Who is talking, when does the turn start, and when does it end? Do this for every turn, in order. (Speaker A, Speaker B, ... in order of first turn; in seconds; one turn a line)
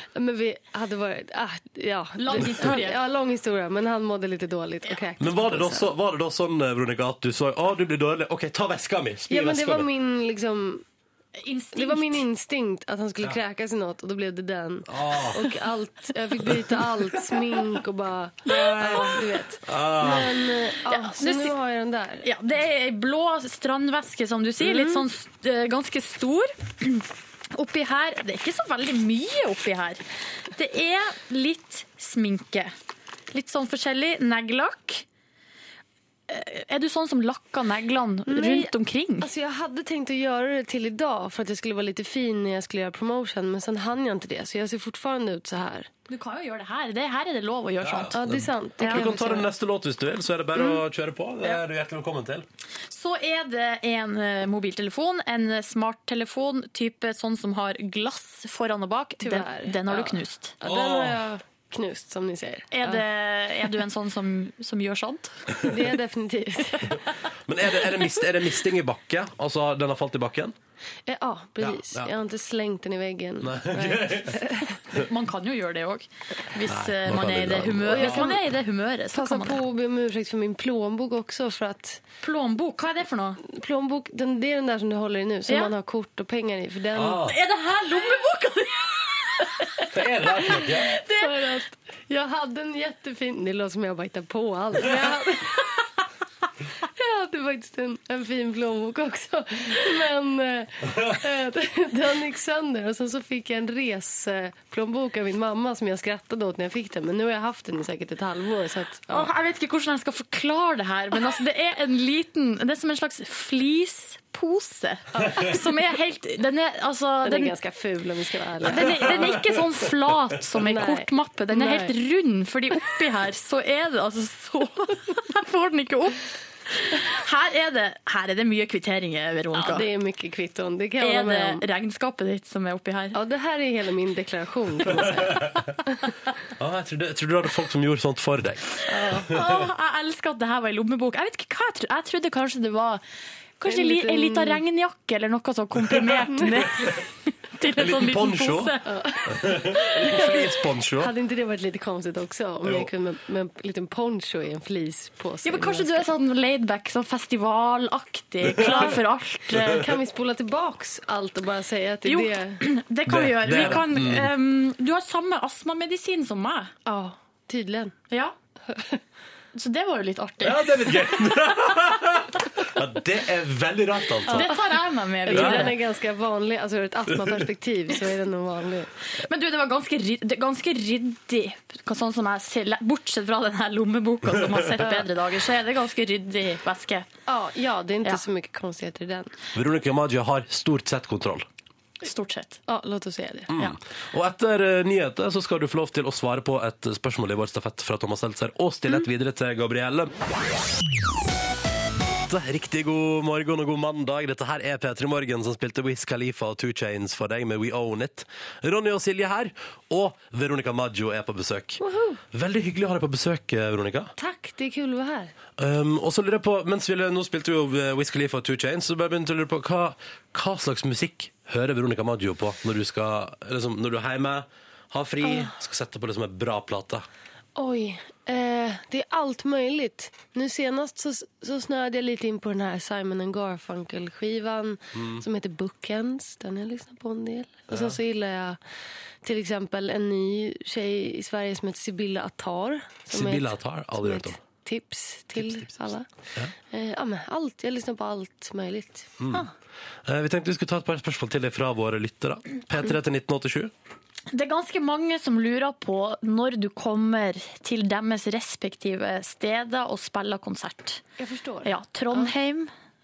Speaker A: 0.1-5.9
Speaker B: 2.2-3.0
Speaker C: 5.2-9.9
Speaker A: 9.3-10.8
Speaker B: 11.4-12.2
Speaker A: 11.7-22.3
Speaker C: 14.9-15.4
Speaker C: 18.5-19.1
Speaker C: 19.6-20.3
Speaker B: 20.9-21.5
Speaker B: 22.2-30.0
Speaker A: 24.6-25.0
Speaker B: 30.5-32.7
Speaker B: 33.3-35.0
Speaker B: 36.3-39.3
Speaker A: 38.3-45.9
Speaker B: 46.1-48.2
Speaker C: 47.8-52.5
Speaker A: 48.1-49.5
Speaker B: 48.8-49.1
Speaker B: 52.9-60.6
Speaker A: 59.2-63.0
Speaker C: 60.6-61.2
Speaker B: 62.7-65.3
Speaker A: 65.6-67.0
Speaker C: 67.5-70.5
Speaker A: 71.0-74.8
Speaker C: 71.6-72.1
Speaker C: 73.4-74.5
Speaker B: 74.9-79.6
Speaker C: 76.7-78.3
Speaker A: 77.9-78.4
Speaker A: 79.1-82.0
Speaker B: 82.2-83.4
Speaker A: 83.5-87.3
Speaker B: 85.5-85.7
Speaker C: 86.9-87.3
Speaker B: 87.2-89.5
Speaker C: 89.9-90.9
Speaker B: 90.6-91.4
Speaker A: 91.1-95.7
Speaker A: 97.0-109.3
Speaker B: 109.1-117.5
Speaker A: 115.2-115.6
Speaker A: 117.2-119.5
Speaker B: 118.6-126.2
Speaker A: 120.6-121.9
Speaker B: 126.8-129.9
Speaker A: 129.5-131.6
Speaker B: 131.0-133.2
Speaker A: 133.1-135.5
Speaker C: 135.2-135.4
Speaker C: 136.6-138.6
Speaker A: 138.9-139.3
Speaker B: 139.1-143.0
Speaker B: 143.6-148.9
Speaker A: 143.6-144.6
Speaker A: 146.3-146.6
Speaker C: 147.7-148.8
Speaker A: 148.8-156.1
Speaker C: 149.4-151.1
Speaker C: 152.6-152.9
Speaker B: 155.4-159.9
Speaker A: 158.6-159.0
Speaker A: 159.6-162.6
Speaker B: 162.0-166.7
Speaker C: 163.1-164.3
Speaker A: 166.8-167.9
Speaker B: 168.1-168.3
Speaker B: 169.5-171.1
Speaker C: 170.4-174.5
Speaker A: 174.3-178.9
Speaker B: 174.3-175.8
Speaker C: 175.3-175.7
Speaker C: 177.2-177.4
Speaker B: 179.2-187.1
Speaker C: 184.4-184.6
Speaker A: 187.3-189.3
Speaker C: 189.5-191.5
Speaker B: 192.0-192.6
Speaker A: 192.7-193.5
Speaker C: 193.5-200.1
Speaker C: 202.3-214.1
Speaker A: 211.8-212.2
Speaker A: 214.2-215.3
Speaker C: 215.6-227.1
Speaker A: 225.2-225.5
Speaker A: 227.5-238.6
Speaker C: 235.0-235.2
Speaker C: 237.7-237.9
Speaker A: 239.2-246.1
Speaker C: 243.1-244.4
Speaker A: 246.7-249.1
Speaker C: 249.2-249.4
Speaker C: 250.0-253.7
Speaker B: 254.3-261.0
Speaker A: 261.2-262.3
Speaker B: 261.6-262.7